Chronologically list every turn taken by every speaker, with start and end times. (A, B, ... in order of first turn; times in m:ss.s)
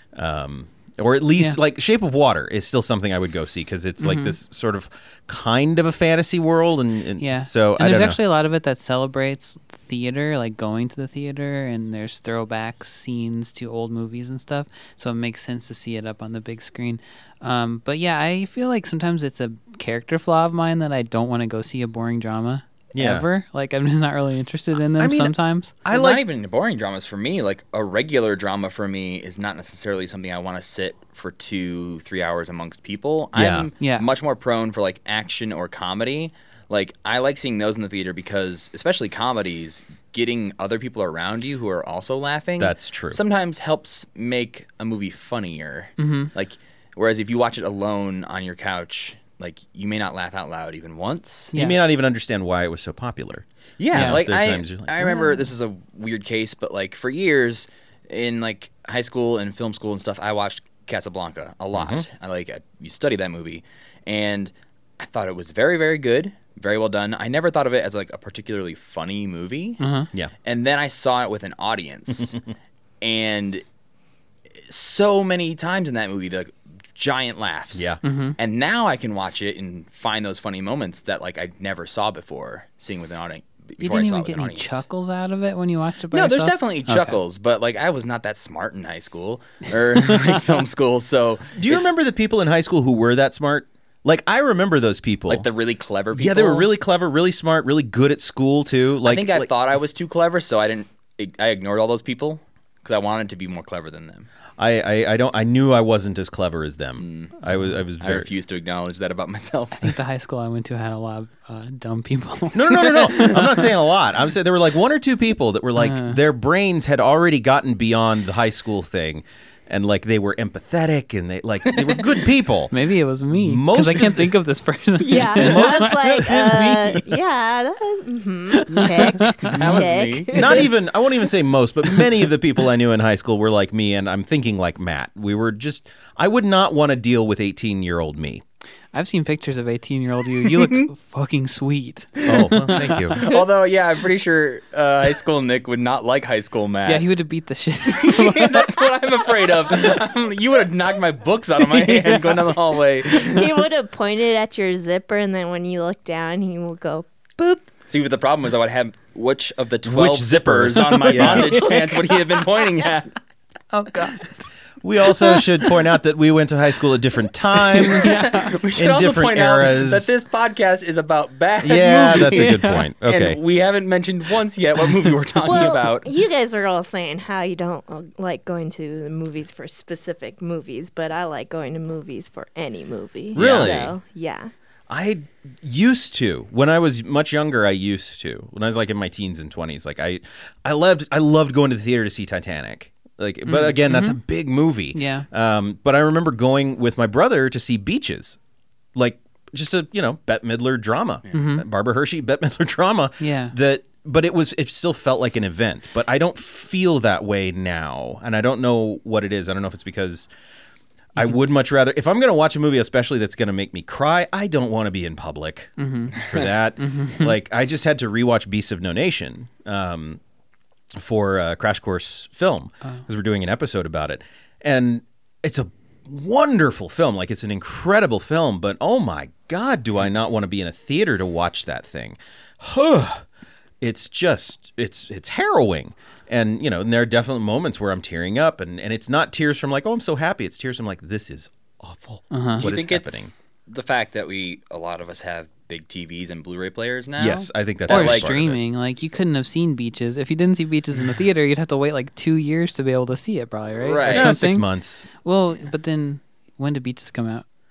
0:00.2-0:08.2 A
0:04.0-0:04.4 B
0:07.2-0:25.7 B
0:22.9-0:23.3 A
0:25.0-0:26.2 A
0:25.9-0:51.6 C
0:33.4-0:33.7 A
0:33.8-0:34.1 B
0:42.6-0:43.2 A
0:46.0-0:46.3 B
0:51.5-0:51.8 B
0:51.5-0:55.4 A
0:53.8-1:09.8 C
0:53.9-0:54.2 B
1:01.7-1:02.0 A
1:09.8-1:10.1 B
1:10.4-1:12.4 C
1:13.0-1:13.6 C
1:14.6-1:24.8 C
1:18.0-1:18.4 B
1:23.8-1:27.2 B
1:26.1-1:31.8 C
1:31.6-1:35.5 A
1:35.3-1:36.7 C
1:36.1-1:39.5 A
1:39.0-1:44.3 C
1:44.6-1:48.3 A
1:47.0-1:47.4 C
1:48.0-1:49.9 C
1:49.8-1:53.5 B
1:52.5-2:02.7 A
1:53.1-1:53.5 C
1:55.8-1:56.2 B
2:01.7-2:02.2 C
2:02.7-2:07.2 B
2:03.3-2:04.3 A
2:05.0-2:10.6 D
2:05.4-2:06.0 A
2:08.5-2:09.6 B
2:09.5-2:10.6 C
2:09.5-2:18.4 A
2:18.9-2:23.4 B
2:20.5-2:20.9 C
2:22.2-2:27.1 C
2:22.2-2:23.2 A
2:26.9-2:28.9 B
2:27.9-2:33.5 C
2:31.8-2:32.3 B
2:33.1-2:37.7 D
2:37.9-2:43.1 C
2:39.8-2:41.6 A
2:41.2-2:42.2 B
2:43.7-2:44.4 B
2:44.8-2:50.2 A
2:45.0-2:45.7 B
2:47.8-2:48.5 B
2:47.9-2:56.1 C
2:51.6-2:53.4 A
2:52.1-2:52.9 B
2:55.4-3:04.5 D
3:03.3-3:04.0 A
3:03.4-3:03.9 C
3:04.9-3:18.4 A
3:13.5-3:14.2 B
3:14.9-3:15.3 B
3:19.0-3:30.3 A
3:21.3-3:21.6 B
3:23.2-3:23.6 B
3:31.2-3:40.2 A
3:35.8-3:36.2 B
3:36.2-3:36.4 C
3:36.8-3:37.4 B
3:40.9-3:53.2 A
3:53.8-4:03.3 A
4:02.3-4:02.7 B
4:02.6-4:08.3 C
4:07.2-4:08.6 A
4:07.9-4:14.7 B
4:13.8-4:14.4 C
4:14.1-4:15.1 A
4:15.2-4:17.4 B